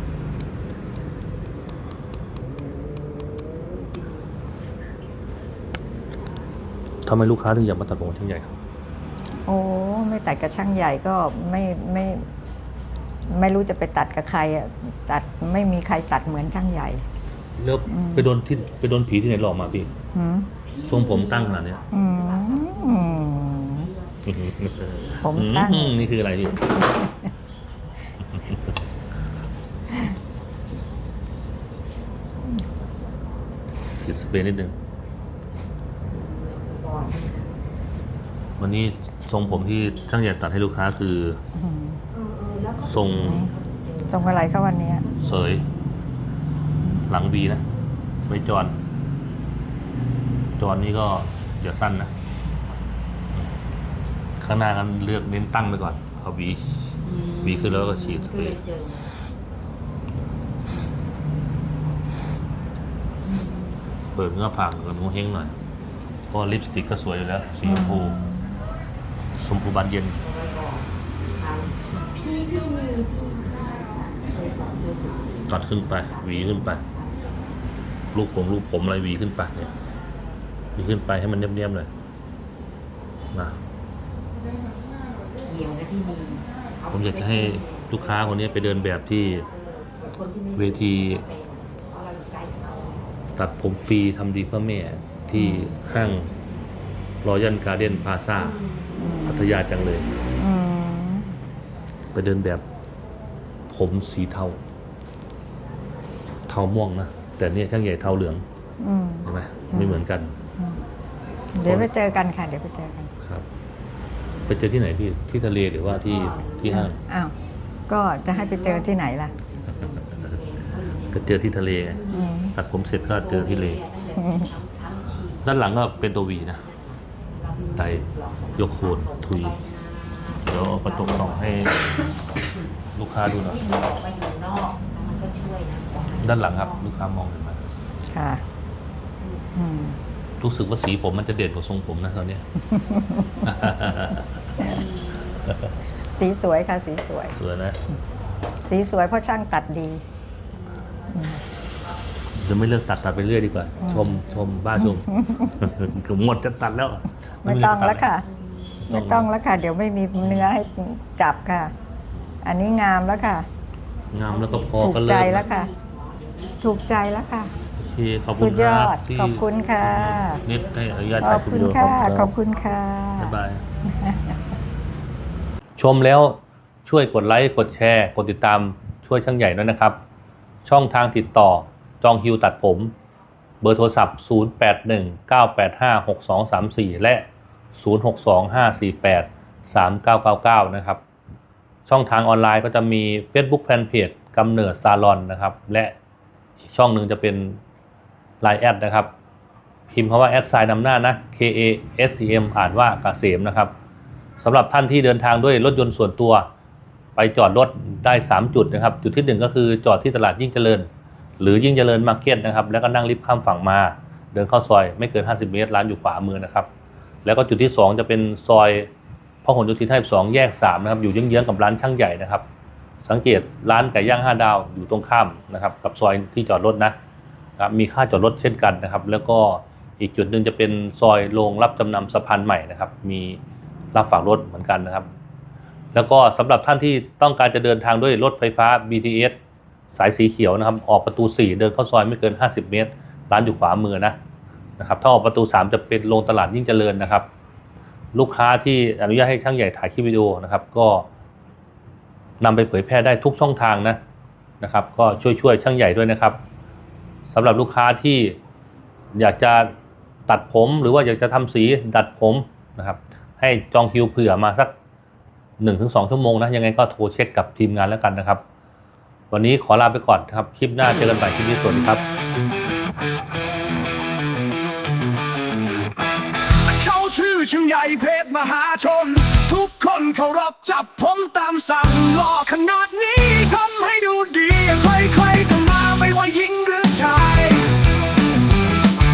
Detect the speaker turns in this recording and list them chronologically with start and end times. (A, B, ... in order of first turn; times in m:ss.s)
0:02.5-0:04.3 A
0:07.0-0:08.5 B
0:09.4-0:12.2 C
0:13.3-0:17.0 C
0:17.6-0:19.9 B
0:17.9-0:18.3 C
0:20.1-0:20.5 C
0:20.6-0:25.4 A
0:20.8-0:21.8 B
0:21.9-0:23.9 C
0:24.2-0:26.8 B
0:25.2-0:27.2 C
0:34.0-0:34.7 B
0:36.1-0:37.6 A
0:38.6-0:41.4 B
0:41.5-0:42.0 C
0:42.1-0:45.3 A
0:42.8-0:43.4 B
0:43.2-0:43.5 C
0:44.1-0:45.0 C
0:45.2-0:45.6 B
0:47.1-0:47.6 B
0:48.3-0:48.7 B
0:50.6-0:52.1 B
0:54.4-0:58.6 B
0:57.0-0:59.1 A
1:03.2-1:03.8 A
1:04.1-1:05.5 B
1:06.3-1:08.2 B
1:07.6-1:08.5 C
1:09.4-1:10.2 B
1:10.2-1:17.4 A
1:15.5-1:16.8 B
1:18.1-1:19.7 B
1:20.8-1:21.9 B
1:23.3-1:23.6 B
1:25.4-1:33.2 A
1:26.9-1:29.5 B
1:30.5-1:31.2 B
1:33.4-1:36.3 B
1:35.3-1:35.7 C
1:37.2-1:38.6 B
1:38.3-1:39.2 A
1:39.0-1:39.5 C
1:39.2-1:40.1 B
1:40.4-1:41.4 C
1:42.1-1:42.6 B
1:43.7-1:44.6 B
1:46.5-1:48.4 B
1:48.8-1:50.0 C
1:49.2-1:50.3 B
1:49.3-1:49.9 A
1:51.5-1:53.1 C
1:51.6-1:52.0 B
1:54.5-1:57.0 B
1:55.9-1:56.9 A
1:56.7-1:57.3 C
1:57.9-1:59.3 C
1:58.3-2:12.6 A
2:01.1-2:02.0 B
2:02.1-2:02.5 C
2:02.5-2:03.8 B
2:05.4-2:06.6 B
2:07.8-2:08.0 B
2:08.6-2:09.5 B
2:10.4-2:11.9 B
2:12.9-2:13.6 B
2:13.4-2:16.8 A
2:16.2-2:17.6 B
2:18.1-2:18.4 C
2:19.2-2:19.5 A
2:19.6-2:20.0 C
2:20.4-2:22.4 B
2:22.7-2:23.2 C
2:23.4-2:24.3 B
2:24.6-2:25.2 A
2:26.1-2:27.4 C
2:27.3-2:27.8 B
2:28.6-2:30.0 C
2:31.1-2:31.4 C
2:32.4-2:38.1 B
2:33.8-2:34.2 C
2:34.8-2:35.5 C
2:37.4-2:38.2 C
2:38.9-2:39.3 B
2:38.9-2:41.7 C
2:40.2-2:40.5 B
2:42.4-2:43.5 C
2:44.1-2:45.5 B
2:44.3-2:47.7 A
2:44.8-2:45.7 C
2:46.6-2:47.5 C
2:47.8-2:52.3 B
2:48.3-2:50.4 C
2:49.4-2:52.8 A
2:51.2-2:53.4 C
2:53.2-2:53.6 B
2:55.8-3:00.0 B
3:00.6-3:02.9 B
3:03.6-3:11.0 B
3:11.9-3:15.9 B
3:16.7-3:17.6 B
3:18.4-3:19.1 B
3:19.9-3:23.7 B
3:24.4-3:26.5 B
3:27.2-3:30.9 B
3:31.4-3:36.7 B
3:37.2-3:38.9 B
3:39.4-3:42.4 B
3:43.0-3:46.9 B
3:47.6-3:53.4 B
3:53.9-3:55.1 B
3:55.9-3:59.3 B
3:59.9-4:04.2 B
4:04.8-4:07.3 B
4:08.1-4:11.0 B
4:12.4-4:14.0 B
4:14.6-4:16.4 B
4:17.3-4:18.4 B
4:19.1-4:19.7 B
4:20.3-4:24.7 B
4:25.6-4:28.4 B
4:29.3-4:32.0 B
4:36.6-4:47.7 D